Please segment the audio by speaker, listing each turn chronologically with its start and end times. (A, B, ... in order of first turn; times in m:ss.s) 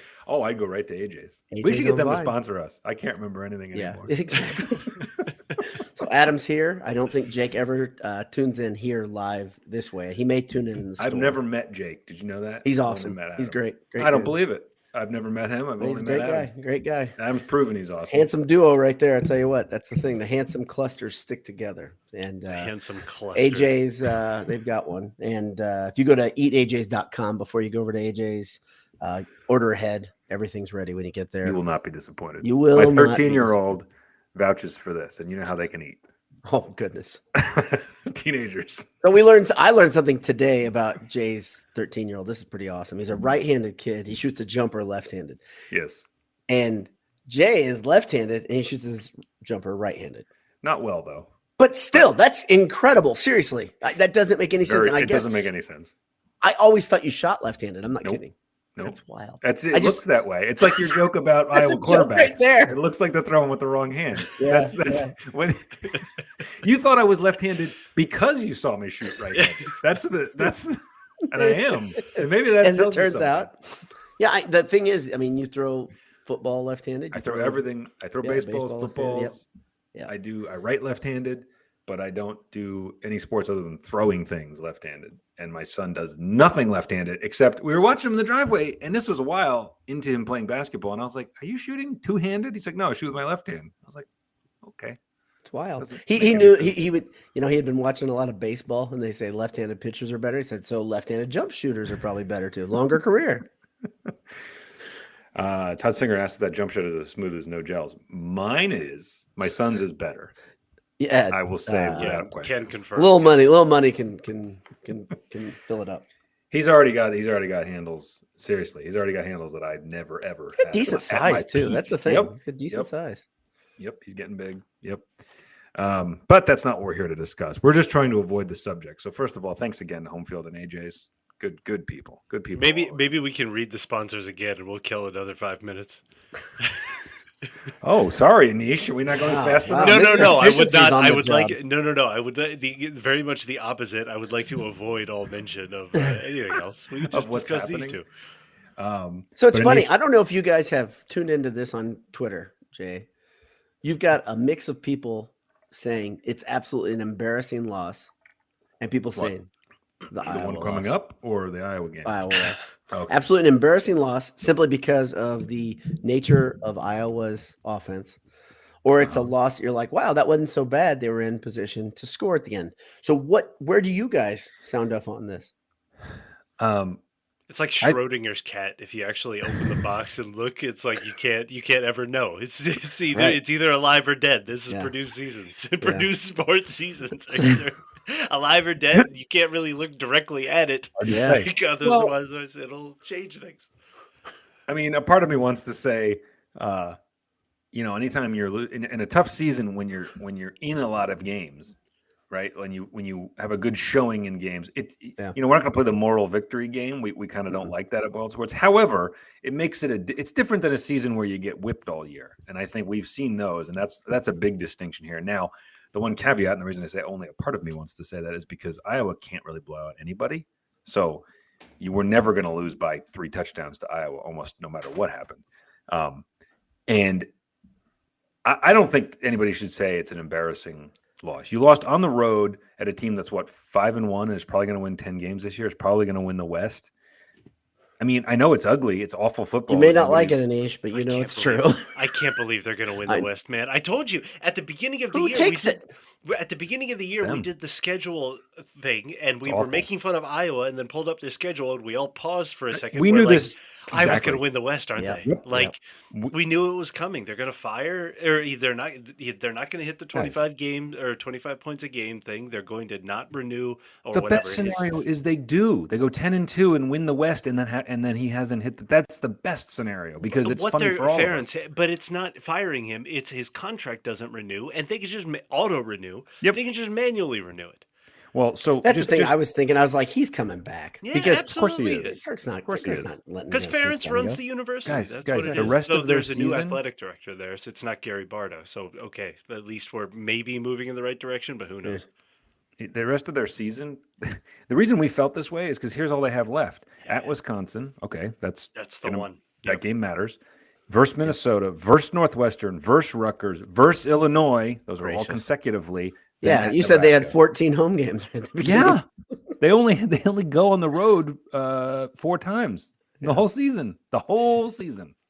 0:00.2-0:05.3 A
0:01.5-0:02.3 B
0:03.7-0:05.0 B
0:05.7-0:11.4 B
0:11.0-0:16.5 A
0:12.6-0:14.3 B
0:15.8-0:17.2 B
0:17.2-0:18.3 A
0:18.1-0:22.7 B
0:22.5-0:23.8 C
0:23.3-0:31.6 B
0:31.4-0:36.0 A
0:32.4-0:33.6 B
0:36.4-0:37.2 B
0:37.3-0:38.9 A
0:39.0-0:45.4 B
0:45.7-0:46.0 A
0:46.5-0:50.2 B
0:50.6-0:51.3 A
0:51.6-0:55.3 B
0:54.6-0:55.9 A
0:56.4-1:00.0 B
0:58.8-1:13.5 A
1:00.6-1:01.0 B
1:01.5-1:02.8 B
1:04.4-1:05.1 B
1:12.1-1:13.6 B
1:14.2-1:17.6 B
1:17.1-1:19.4 A
1:18.2-1:19.4 B
1:20.1-1:34.1 A
1:34.6-1:35.0 A
1:35.4-1:43.4 B
1:35.8-1:36.8 A
1:45.3-1:50.3 A
1:51.0-1:52.3 B
1:51.3-1:52.7 A
1:52.0-1:53.3 C
1:53.0-1:56.1 B
1:56.5-2:02.9 A
2:00.6-2:03.2 B
2:03.8-2:05.0 A
2:05.8-2:13.1 A
2:12.5-2:16.0 C
2:16.6-2:17.0 C
2:17.8-2:20.4 A
2:19.2-2:21.6 B
2:19.8-2:28.1 C
2:27.1-2:28.0 A
2:28.8-2:29.9 A
2:29.4-2:33.1 B
2:33.8-2:38.1 B
2:38.8-2:39.5 B
2:40.1-2:40.9 B
2:40.2-2:42.4 A
2:42.0-2:42.6 B
2:42.9-2:43.2 A
2:43.1-2:48.2 B
2:48.8-2:55.5 B
2:49.0-2:49.3 A
2:56.6-2:57.0 A
2:57.5-3:13.7 C
3:03.1-3:03.4 B
3:05.8-3:06.1 B
3:11.0-3:12.1 A
3:11.1-3:11.4 B
3:14.7-3:17.0 A
3:17.7-3:21.8 A
3:22.3-3:41.2 A
3:41.8-3:46.2 A
3:46.9-3:47.3 A
3:48.4-3:56.9 A
3:58.0-4:00.4 A
3:59.7-4:02.1 B
4:00.9-4:15.8 C
4:05.1-4:05.8 B
4:07.2-4:07.5 A
4:09.4-4:09.9 A
4:12.7-4:14.4 A
4:15.0-4:15.7 B
4:16.3-4:24.9 C
4:20.1-4:20.4 A
4:24.1-4:31.5 A
4:30.4-4:37.8 C
4:38.3-4:39.3 A
4:38.8-4:44.4 B
4:41.0-4:42.2 C
4:42.6-4:43.2 A
4:43.5-4:52.0 C
4:44.8-4:46.8 A
4:45.4-4:45.7 B
4:52.8-5:07.4 A
4:58.8-4:59.8 C
5:05.0-5:05.4 B
5:06.4-5:09.0 B
5:08.6-5:09.0 A
5:09.6-5:15.1 A
5:13.2-5:13.4 B